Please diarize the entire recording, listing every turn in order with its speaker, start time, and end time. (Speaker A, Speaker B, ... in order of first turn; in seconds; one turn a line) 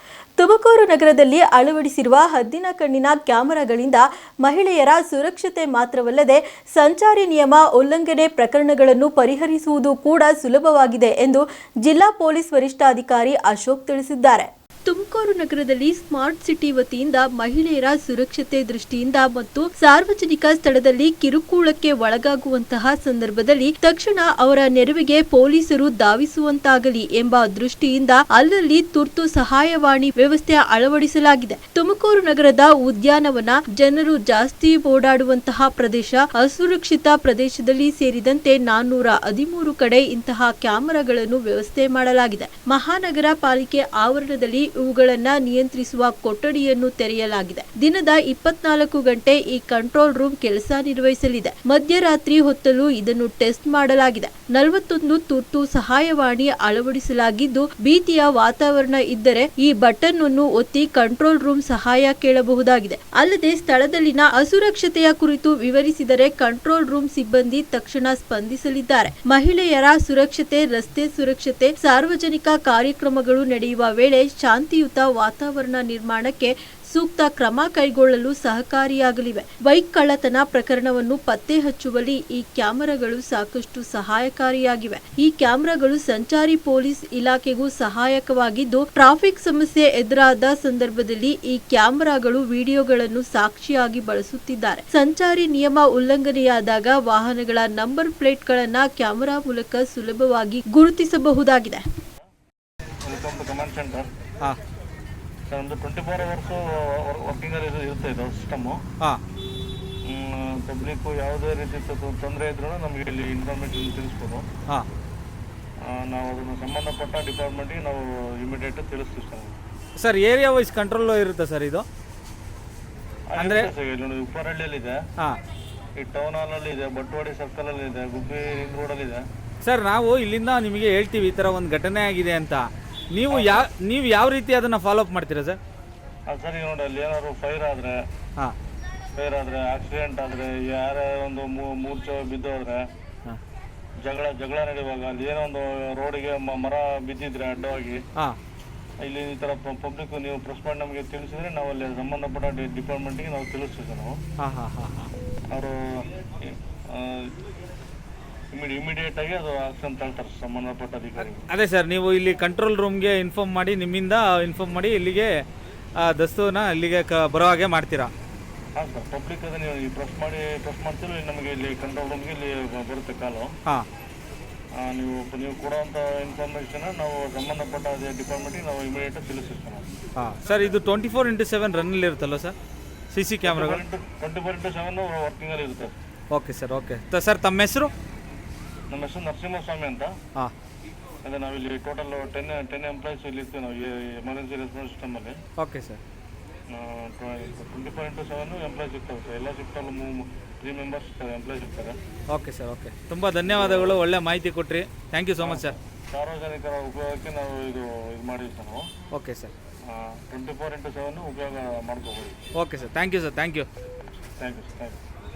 Speaker A: 0.4-101.8
Speaker B: 103.0-104.1
Speaker B: 105.5-108.8
Speaker B: 110.1-114.5
Speaker B: 115.8-119.5
Speaker C: 120.0-121.8
Speaker B: 123.3-125.0
Speaker C: 123.4-123.7
Speaker B: 126.0-129.2
Speaker C: 129.6-135.6
Speaker B: 133.3-133.7
Speaker B: 136.3-138.0
Speaker B: 139.2-142.9
Speaker B: 144.0-148.0
Speaker B: 149.0-154.2
Speaker C: 154.4-155.1
Speaker B: 155.5-157.3
Speaker B: 158.5-161.4
Speaker C: 161.5-165.4
Speaker C: 166.0-168.1
Speaker B: 168.8-173.5
Speaker B: 174.8-179.8
Speaker C: 180.2-182.5
Speaker C: 183.1-183.8
Speaker B: 183.4-185.9
Speaker C: 186.3-187.9
Speaker B: 188.9-190.1
Speaker B: 191.2-195.4
Speaker C: 195.6-196.0
Speaker B: 196.7-201.9
Speaker C: 202.3-205.7
Speaker B: 203.4-204.0
Speaker B: 205.4-208.9
Speaker C: 209.1-209.5
Speaker B: 209.9-212.3
Speaker C: 212.6-213.7
Speaker B: 214.4-215.0